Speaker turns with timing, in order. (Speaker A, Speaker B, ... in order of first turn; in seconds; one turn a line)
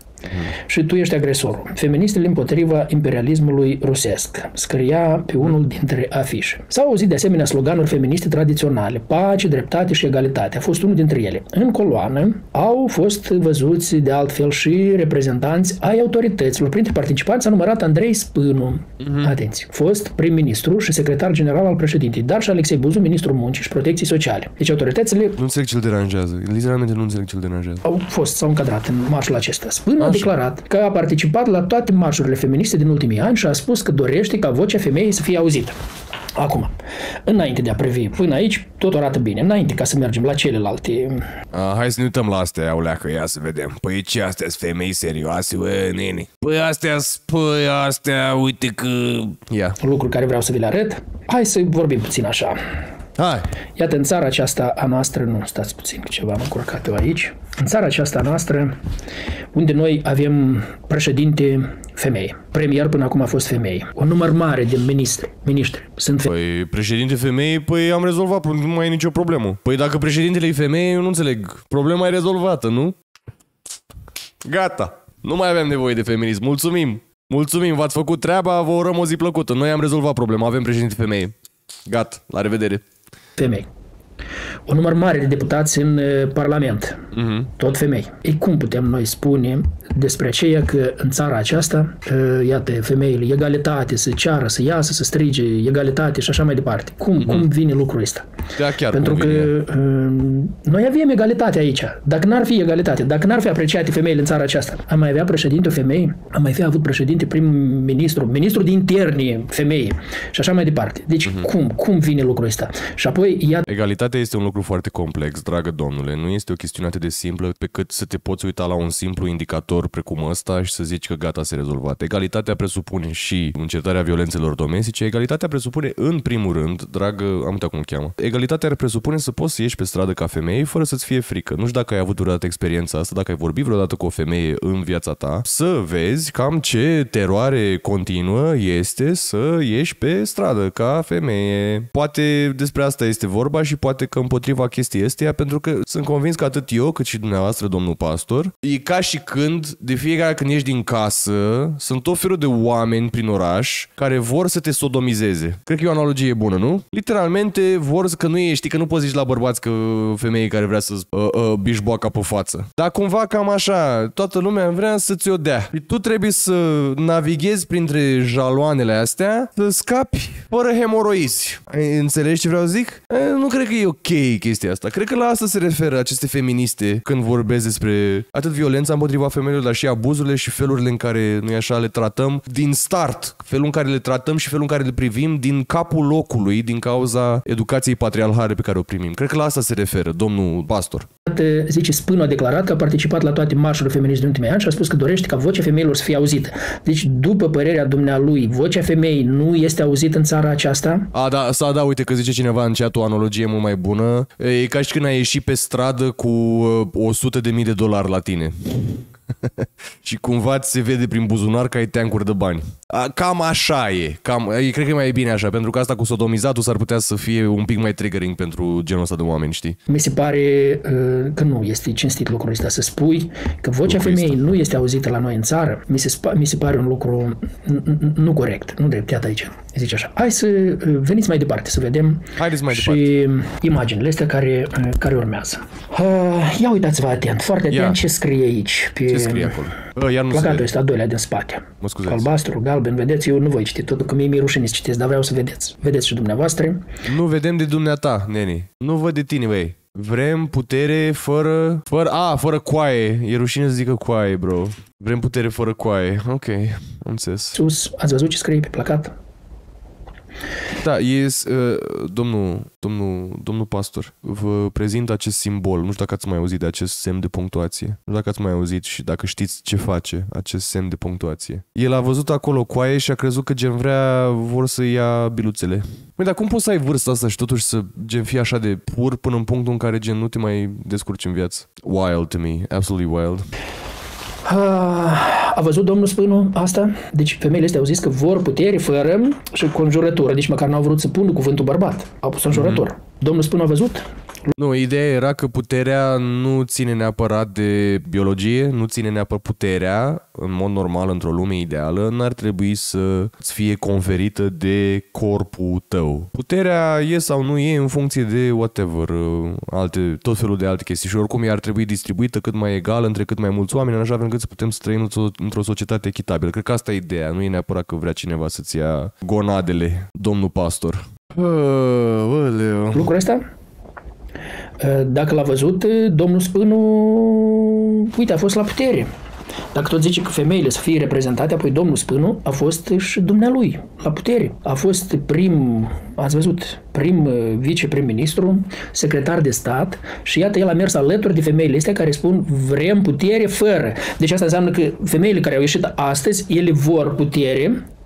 Speaker A: 0.5-25.4
Speaker B: 19.0-19.3
Speaker B: 25.4-27.8
Speaker A: 27.8-35.8
Speaker B: 30.0-30.3
Speaker A: 36.4-36.7
Speaker A: 37.2-41.3
Speaker B: 41.5-49.8
Speaker A: 49.8-52.6
Speaker B: 53.2-53.5
Speaker A: 53.8-58.8
Speaker A: 59.5-66.3
Speaker B: 66.3-73.0
Speaker B: 74.4-81.3
Speaker B: 81.8-82.8
Speaker A: 83.4-83.7
Speaker A: 84.7-98.3
Speaker B: 87.1-87.5
Speaker B: 97.2-97.5
Speaker B: 98.5-99.5
Speaker A: 98.9-113.6
Speaker B: 113.7-191.1
Speaker A: 191.2-201.1
Speaker B: 201.1-219.8
Speaker A: 219.9-239.7
Speaker B: 223.8-224.4
Speaker B: 232.3-233.1
Speaker B: 237.7-238.0
Speaker B: 239.1-240.7
Speaker A: 240.3-246.9
Speaker B: 241.8-242.3
Speaker B: 247.1-257.6
Speaker A: 257.5-259.1
Speaker B: 260.8-283.5
Speaker A: 284.4-294.5
Speaker B: 292.5-292.8
Speaker B: 294.5-323.1
Speaker A: 322.9-323.4
Speaker A: 324.8-329.1
Speaker A: 329.7-347.9